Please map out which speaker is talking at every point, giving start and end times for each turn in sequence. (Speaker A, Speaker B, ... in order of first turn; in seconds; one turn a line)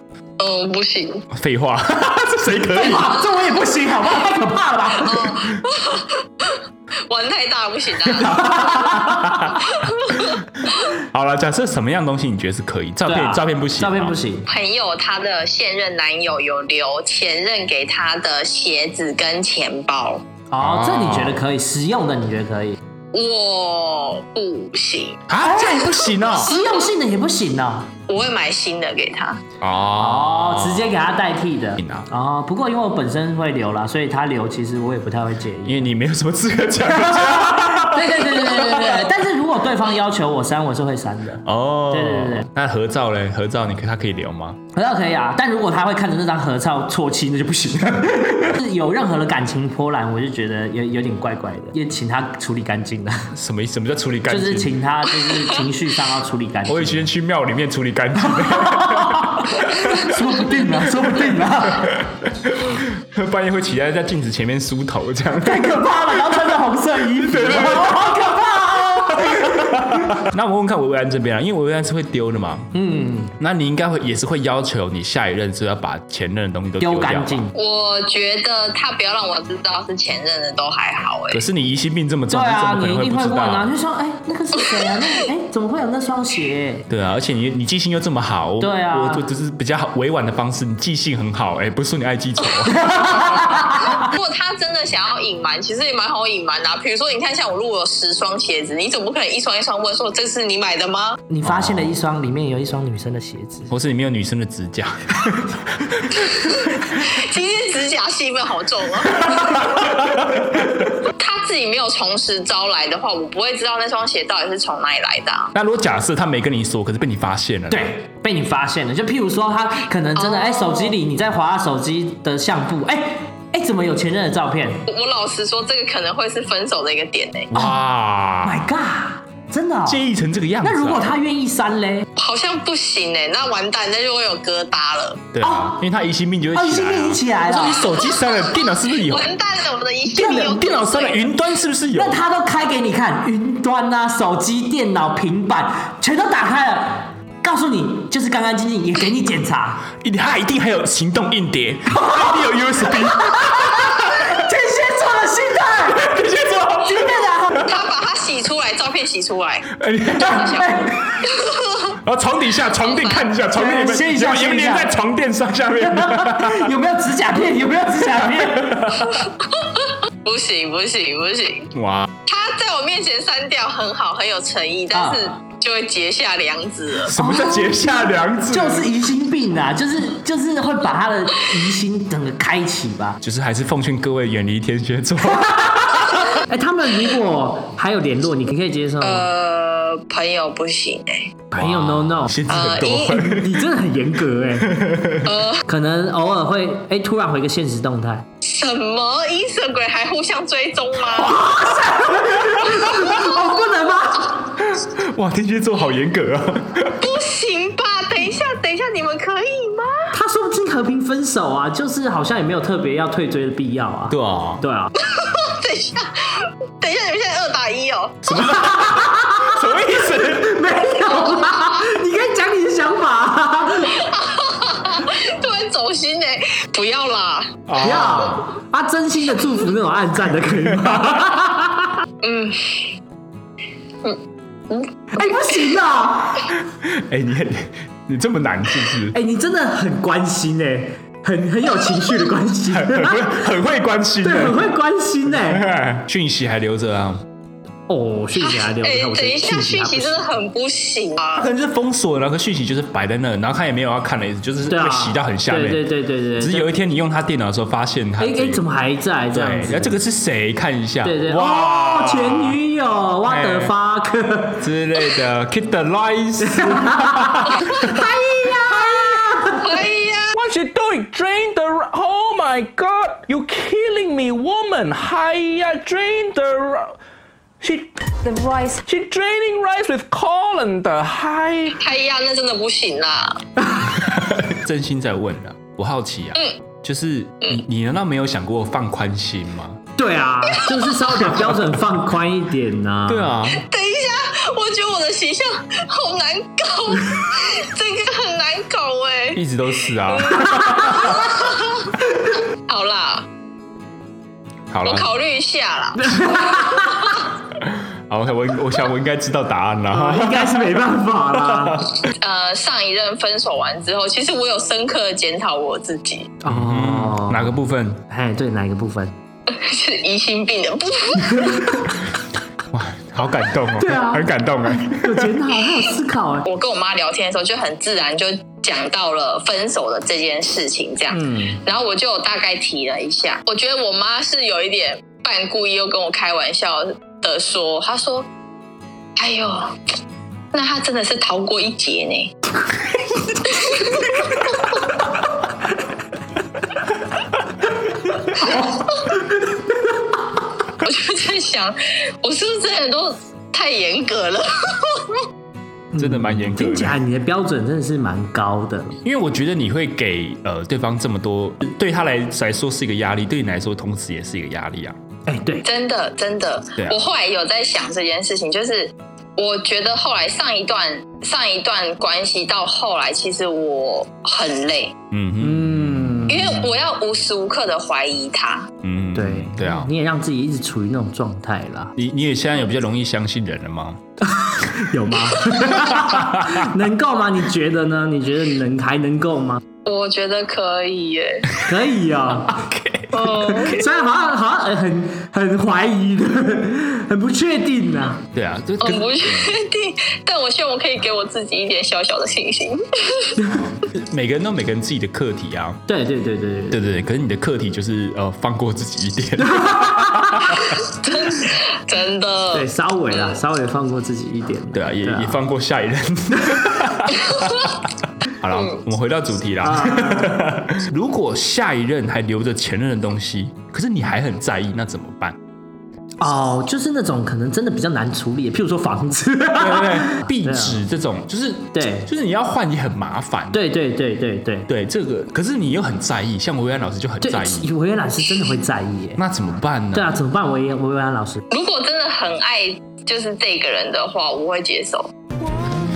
Speaker A: 0.4-1.2
Speaker B: 1.3-3.2
Speaker C: 2.6-5.5
Speaker A: 5.0-8.8
Speaker C: 8.2-9.4
Speaker B: 8.3-9.6
Speaker A: 9.6-10.9
Speaker B: 10.9-14.2
Speaker C: 13.0-14.5
Speaker A: 14.5-20.2
Speaker C: 20.5-22.8
Speaker B: 20.6-21.4
Speaker A: 23.1-25.2
Speaker B: 25.3-26.5
Speaker C: 25.4-27.9
Speaker A: 26.5-26.9
Speaker A: 28.1-29.4
Speaker B: 29.6-31.0
Speaker C: 29.9-35.9
Speaker B: 31.8-32.1
Speaker B: 35.6-39.0
Speaker C: 36.8-42.5
Speaker B: 41.4-44.6
Speaker C: 44.7-53.3
Speaker B: 53.3-54.8
Speaker C: 54.3-57.1
Speaker B: 56.6-66.5
Speaker C: 58.2-62.0
Speaker C: 65.4-69.9
Speaker B: 67.1-68.2
Speaker B: 69.1-72.7
Speaker C: 72.7-73.3
Speaker B: 73.4-77.4
Speaker C: 76.8-77.5
Speaker A: 77.5-81.4
Speaker B: 81.3-83.7
Speaker C: 82.3-86.9
Speaker A: 84.6-84.9
Speaker B: 86.9-92.9
Speaker C: 88.6-89.3
Speaker C: 92.7-94.1
Speaker A: 93.9-101.2
Speaker C: 101.3-103.7
Speaker B: 101.4-101.9
Speaker B: 103.7-106.1
Speaker A: 106.1-109.9
Speaker B: 109.8-110.7
Speaker A: 111.0-115.5
Speaker B: 115.5-117.9
Speaker C: 117.7-124.8
Speaker A: 120.2-120.9
Speaker A: 124.9-127.5
Speaker B: 127.5-128.6
Speaker C: 128.4-130.1
Speaker B: 129.9-131.1
Speaker C: 130.6-132.1
Speaker A: 132.2-135.2
Speaker B: 135.3-139.3
Speaker C: 135.4-135.8
Speaker C: 136.5-137.9
Speaker A: 139.0-141.3
Speaker C: 140.1-140.6
Speaker B: 140.3-142.2
Speaker C: 141.9-149.9
Speaker B: 150.0-154.4
Speaker C: 151.9-157.8
Speaker B: 155.9-157.7
Speaker A: 157.6-162.0
Speaker B: 159.7-160.5
Speaker C: 160.2-161.2
Speaker B: 162.0-166.7
Speaker A: 162.8-163.3
Speaker C: 163.5-164.9
Speaker C: 165.8-169.0
Speaker B: 168.1-169.2
Speaker A: 169.1-171.7
Speaker B: 171.7-172.1
Speaker A: 172.3-177.1
Speaker C: 174.9-175.3
Speaker B: 177.1-178.9
Speaker C: 177.1-183.2
Speaker B: 183.2-186.2
Speaker C: 185.2-189.3
Speaker A: 189.0-191.4
Speaker C: 191.5-194.8
Speaker B: 191.5-193.6
Speaker A: 192.5-193.2
Speaker B: 194.6-195.3
Speaker A: 195.2-195.7
Speaker C: 195.6-198.3
Speaker A: 198.4-201.5
Speaker C: 201.1-204.5
Speaker B: 204.6-207.0
Speaker A: 207.0-210.1
Speaker C: 210.1-214.9
Speaker B: 214.1-214.6
Speaker A: 215.0-218.2
Speaker B: 218.2-220.6
Speaker C: 218.3-224.1
Speaker A: 223.9-227.6
Speaker B: 227.7-228.5
Speaker C: 227.8-232.0
Speaker A: 232.2-232.9
Speaker A: 234.0-235.2
Speaker C: 235.1-236.5
Speaker B: 236.5-239.2
Speaker C: 239.1-243.5
Speaker B: 242.7-244.6
Speaker C: 244.2-245.7
Speaker B: 245.4-247.2
Speaker C: 247.9-250.2
Speaker A: 248.4-251.5
Speaker B: 251.3-258.6
Speaker C: 254.7-256.7
Speaker C: 258.2-260.0
Speaker B: 259.3-262.6
Speaker C: 261.0-264.6
Speaker B: 263.2-263.7
Speaker B: 264.6-268.0
Speaker C: 266.4-269.8
Speaker A: 267.6-268.8
Speaker A: 269.6-270.4
Speaker D: 270.3-277.0
Speaker D: 277.6-281.8
Speaker A: 281.8-283.4
Speaker C: 283.6-284.0
Speaker B: 283.9-289.8
Speaker C: 289.9-293.4
Speaker B: 293.1-293.6
Speaker A: 293.6-299.4
Speaker B: 299.3-301.2
Speaker A: 300.0-302.0
Speaker A: 302.7-303.3
Speaker B: 304.7-305.1
Speaker A: 304.8-307.2
Speaker C: 305.9-307.1
Speaker B: 307.6-310.8
Speaker C: 309.9-311.9
Speaker B: 311.4-312.0
Speaker A: 312.2-316.4
Speaker C: 316.4-319.1
Speaker B: 316.4-318.0
Speaker A: 319.5-321.8
Speaker C: 321.2-321.9
Speaker B: 322.7-325.4
Speaker C: 323.8-326.4
Speaker A: 326.4-338.3
Speaker C: 331.1-331.6
Speaker A: 339.1-339.8
Speaker A: 340.5-342.3
Speaker A: 343.4-344.7
Speaker C: 348.2-349.9
Speaker A: 350.8-355.2
Speaker C: 355.9-359.0
Speaker B: 356.0-357.0
Speaker B: 359.0-365.0
Speaker C: 365.2-365.6
Speaker A: 365.6-374.9
Speaker B: 375.1-376.4
Speaker C: 375.4-376.6
Speaker A: 376.3-378.7
Speaker B: 378.8-379.9
Speaker C: 379.1-381.9
Speaker B: 381.9-384.0
Speaker C: 384.2-389.6
Speaker B: 385.9-386.7
Speaker A: 389.8-391.5
Speaker C: 391.6-398.2
Speaker B: 392.6-393.1
Speaker A: 393.1-393.8
Speaker B: 398.3-399.6
Speaker A: 398.8-403.4
Speaker B: 403.5-405.8
Speaker C: 405.9-406.8
Speaker B: 406.7-410.7
Speaker C: 409.4-410.6
Speaker A: 410.9-413.4
Speaker C: 412.5-415.4
Speaker B: 414.7-417.7
Speaker C: 416.4-416.9
Speaker A: 417.2-417.6
Speaker B: 418.3-425.4
Speaker A: 418.5-418.8
Speaker C: 419.6-420.5
Speaker C: 426.2-430.8
Speaker B: 429.6-433.6
Speaker C: 431.7-432.1
Speaker C: 433.5-434.7
Speaker B: 434.7-437.7
Speaker C: 437.2-439.2
Speaker B: 439.2-440.1
Speaker C: 439.9-441.4
Speaker A: 441.5-445.1